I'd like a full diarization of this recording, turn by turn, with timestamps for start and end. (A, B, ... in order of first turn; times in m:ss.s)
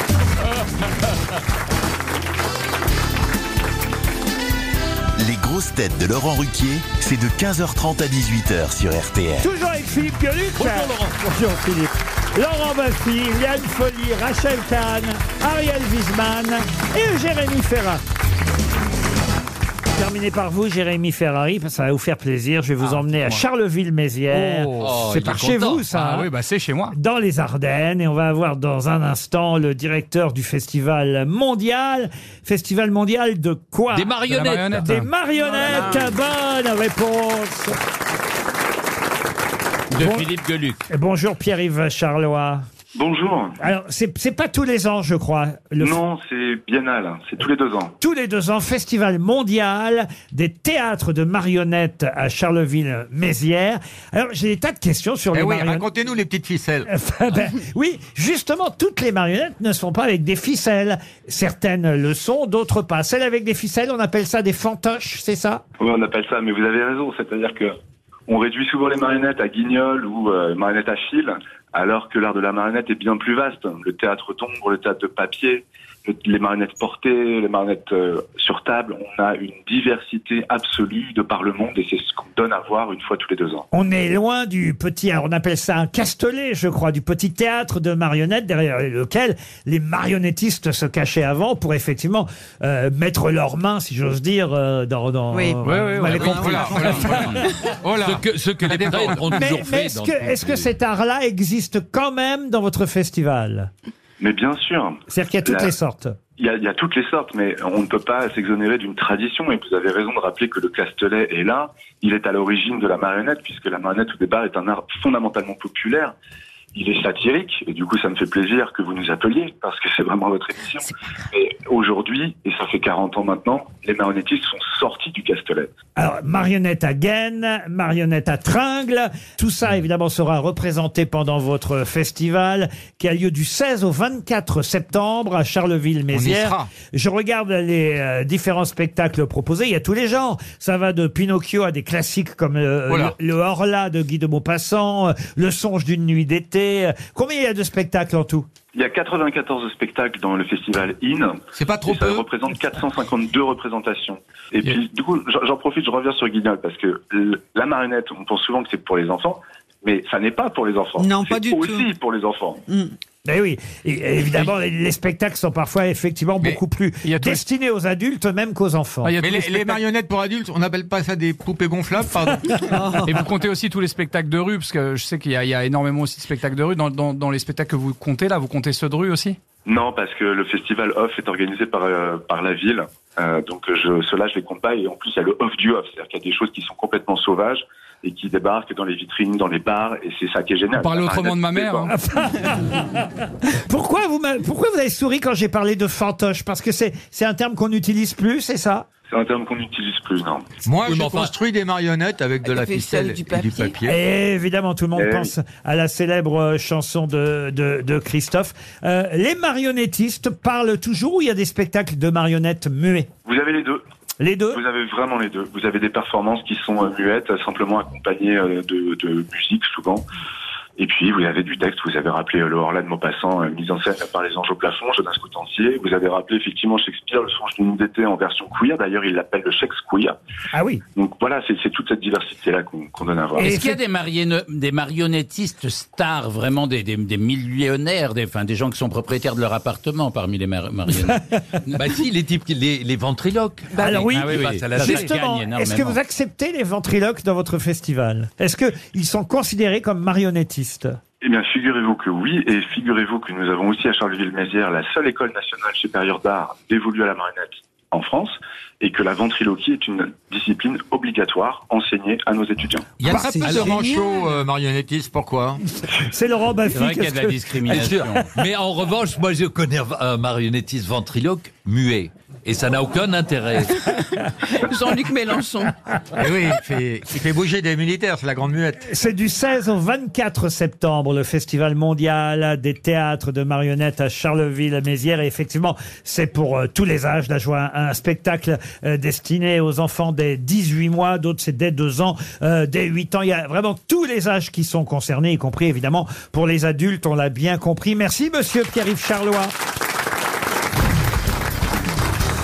0:05.2-0:09.5 A
0:09.4-0:18.0 B
0:10.6-0:11.1 C
0:19.9-0:26.3 B
0:24.3-0:25.0 D
0:24.8-0:25.9 C
0:25.9-0:27.0 D
0:26.9-0:34.2 B
0:33.9-0:35.0 C
0:34.2-0:35.1 D
0:34.7-0:37.8 B
0:35.5-0:36.0 E
0:39.9-0:40.8 F
0:39.9-0:40.3 B
0:40.9-0:42.6 B
0:42.9-0:43.6 G
0:43.6-0:46.0 B
0:45.8-0:47.9 G
0:48.0-0:55.9 B
0:55.3-0:56.9 H
0:56.9-1:05.6 B
1:05.8-1:07.7 G
1:08.3-1:23.6 G
1:23.7-1:37.5 B
1:35.3-1:37.3 I
1:35.9-1:39.4 H
1:38.0-1:40.7 C
1:39.3-1:43.7 B
1:44.2-1:45.7 G
1:45.1-1:46.2 B
1:46.4-1:56.1 G
1:56.7-2:05.7 G
2:06.0-2:28.5 B
2:16.1-2:16.7 H
2:22.9-2:23.1 H
2:28.7-2:42.6 G
2:31.5-2:32.3 H
2:41.0-2:41.9 I
2:42.7-2:42.9 I
2:43.2-2:49.1 B
2:47.0-2:47.4 D
2:49.0-2:49.8 D
2:49.2-2:52.7 H
2:52.7-2:53.3 I
2:53.0-2:59.4 D
2:59.6-3:11.9 G
3:10.7-3:11.9 D
3:11.9-3:18.9 B
3:19.1-3:20.5 G
3:20.6-3:24.0 H
3:20.8-3:21.3 C
3:22.4-3:23.8 E
3:23.8-3:33.1 B
3:24.9-3:25.3 G
3:33.2-3:33.8 G
3:34.2-3:34.6 B
3:34.5-3:40.0 G
3:40.8-3:50.2 G
3:50.5-3:50.8 B
3:50.9-3:53.5 G
3:53.4-3:53.8 B
3:53.4-4:01.2 F
4:01.0-4:01.3 B
4:01.7-4:05.1 C
4:03.7-4:04.1 E
4:03.8-4:11.0 B
4:04.1-4:06.0 F
4:11.2-4:22.9 G
4:23.0-4:25.6 H
4:23.0-4:24.2 I
4:23.1-4:23.6 B
4:26.0-4:27.6 B
4:26.7-4:28.2 F
4:27.7-4:33.9 C
4:34.5-4:35.7 E
4:36.2-4:38.8 H
4:38.8-4:59.5 B